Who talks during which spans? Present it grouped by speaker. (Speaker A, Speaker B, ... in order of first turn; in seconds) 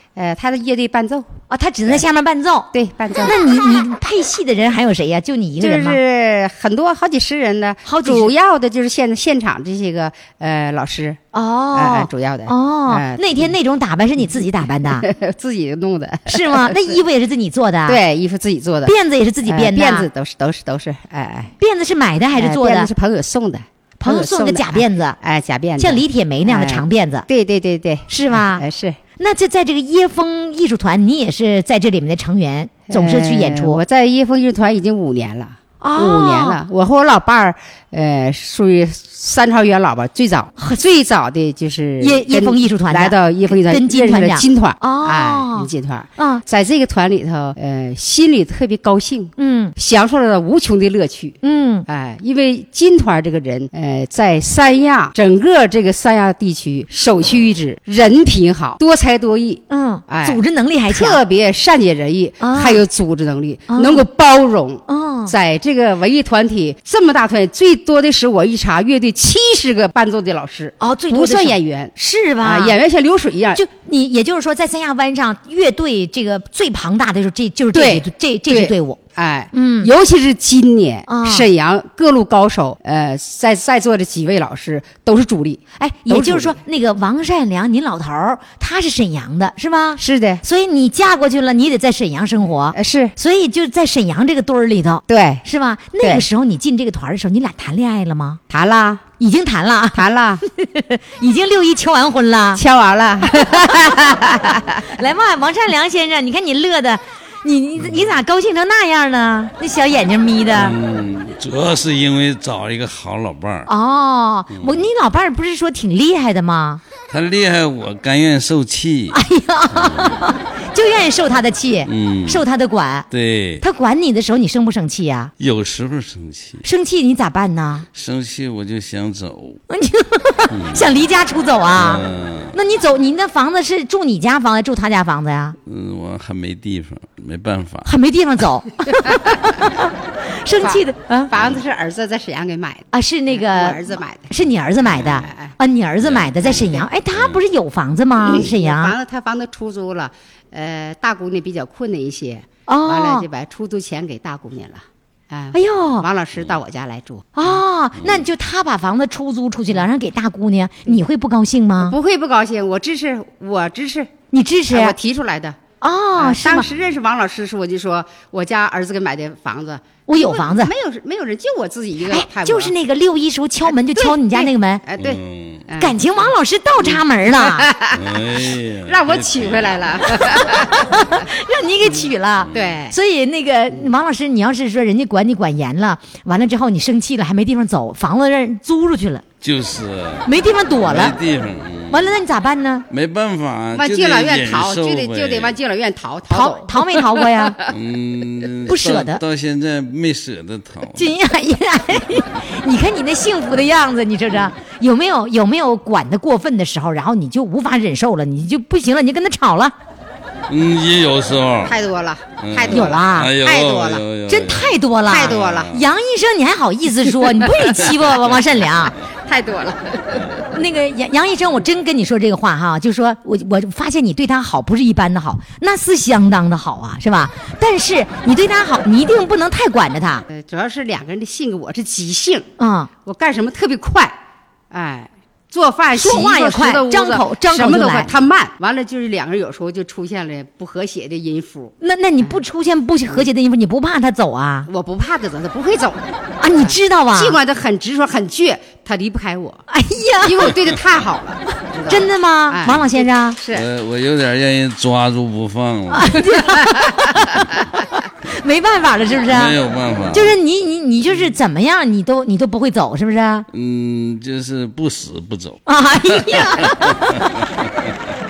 Speaker A: 0.1-1.3, 2.7-3.4, 5.6-11.2, 11.7-13.5, 14.9-17.0, 17.9-18.9, 19.4-21.5, 22.4-29.0, 32.9-73.6, 77.7-86.6, 90.0-90.4, 92.7-93.1, 95.1-95.4, 98.5-99.0, 99.9-100.4, 102.6-104.9, 140.6-144.3, 144.8-145.5, 146.4-146.8, 148.2-157.6, 161.8-164.1, 164.7-165.6, 166.2-172.7, 173.9-176.0, 176.8-180.9, 182.5-182.9, 193.7-197.7, 211.7-214.0, 215.1-215.7, 219.2-220.4, 230.3-232.5, 233.0-234.2, 234.7-242.4, 244.7-249.6, 250.2-253.6, 256.5-257.0
Speaker B: 1.5-2.7, 3.2-6.0, 7.8-8.3, 11.3-15.1, 16.3-18.0, 18.8-20.1, 21.6-22.9, 24.0-25.2, 25.8-27.2, 28.1-28.6, 29.2-33.8, 35.8-36.6, 42.0-46.4, 49.4-49.7, 51.4-51.9, 59.7-61.2, 62.4-62.8, 63.7-64.0, 64.9-65.3, 70.8-72.8, 73.5-79.0, 79.5-79.9, 81.1-81.5, 85.8-98.4, 99.2-102.6, 103.3-104.2, 104.8-110.7, 113.7-116.8, 119.1-123.1, 123.6-125.3, 126.6-127.8, 129.7-135.6, 137.8-141.3, 142.9-148.9, 152.7-153.2, 155.5-156.1, 157.3-161.9, 164.3-164.9, 165.8-166.7, 170.1-170.7, 172.1-174.8, 175.8-177.7, 180.2-189.2, 190.2-191.1, 191.9-192.8, 196.3-197.6, 198.7-199.2, 200.9-209.7, 212.7-213.3, 214.3-218.9, 220.5-230.2, 232.6-232.9, 235.9-238.1, 241.8-244.7, 246.4-247.4, 249.7-250.5, 251.9-253.4, 255.9-259.5, 260.1-263.4, 265.7-267.4
Speaker C: 110.5-113.7, 114.5-114.8, 117.1-119.2, 119.7-120.3, 121.8-122.4, 123.1-123.6, 125.4-126.6, 127.9-129.6, 130.5-130.9, 131.7-132.5, 135.7-137.9, 141.3-141.6, 146.0-146.6, 147.1-147.4, 158.0-158.2, 175.0-175.6, 177.9-179.9, 182.4-182.8, 189.4-190.3, 190.8-192.2, 192.9-195.6, 197.7-201.2, 210.5-211.8, 212.4-215.8, 217.8-218.9, 253.5-256.3, 259.3-260.3, 263.5-267.9